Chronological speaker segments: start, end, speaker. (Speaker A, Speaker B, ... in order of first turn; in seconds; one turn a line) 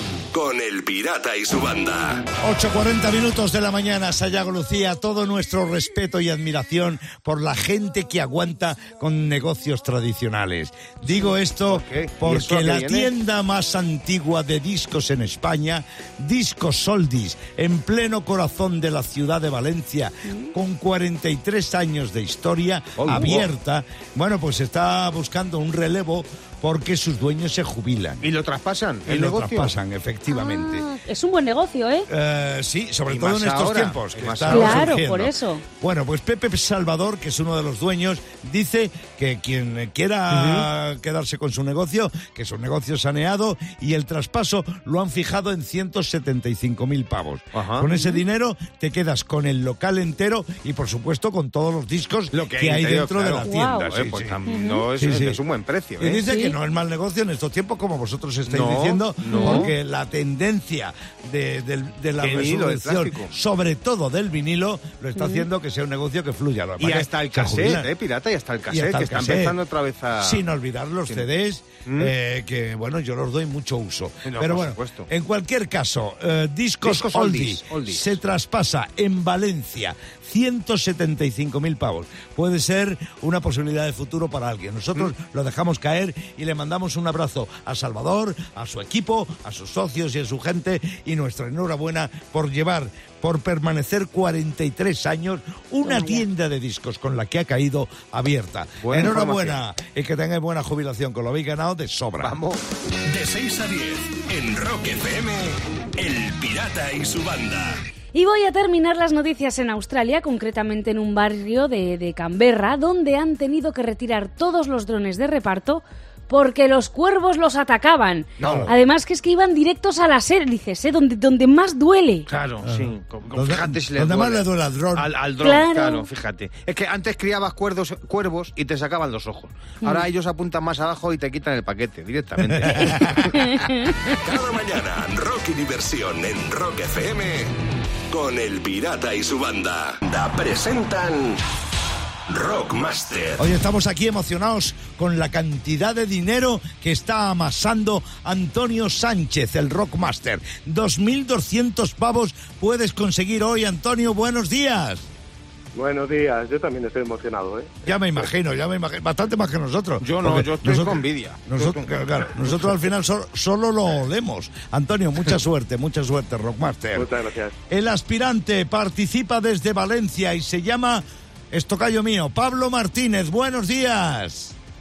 Speaker A: 0.3-2.2
Speaker B: 2.4-28.2
Speaker C: 11.1-13.1
Speaker D: 20.3-20.5
Speaker C: 23.0-23.5
Speaker C: 28.2-29.7
Speaker B: 29.1-30.8
Speaker D: 30.3-32.1
Speaker B: 32.1-54.4
Speaker C: 33.1-35.0
Speaker D: 34.5-35.6
Speaker C: 40.3-40.7
Speaker C: 47.5-47.9
Speaker C: 52.3-56.2
Speaker D: 53.4-53.9
Speaker D: 54.5-54.8
Speaker B: 55.0-55.4
Speaker B: 56.0-67.9
Speaker D: 56.2-56.5
Speaker C: 58.5-59.7
Speaker D: 59.3-59.7
Speaker C: 62.2-63.3
Speaker D: 65.2-65.4
Speaker C: 66.8-70.4
Speaker B: 68.7-69.6
Speaker B: 70.2-102.3
Speaker C: 71.8-72.1
Speaker C: 74.2-75.1
Speaker C: 76.8-78.1
Speaker C: 95.8-96.2
Speaker C: 98.8-99.6
Speaker C: 102.2-102.6
Speaker A: 103.1-107.8
Speaker D: 108.1-122.3
Speaker C: 118.4-118.7
Speaker B: 118.4-118.7
Speaker C: 122.3-133.6
Speaker B: 122.6-125.1
Speaker D: 125.4-126.1
Speaker B: 132.4-133.2
Speaker D: 133.4-134.4
Speaker A: 134.2-137.6
Speaker A: 138.1-141.4
Speaker A: 142.3-143.4
Speaker B: 143.4-155.1
Speaker E: 155.7-157.7
Speaker B: 157.8-167.1
Speaker C: 160.0-161.8
Speaker E: 166.9-167.5
Speaker B: 167.7-174.5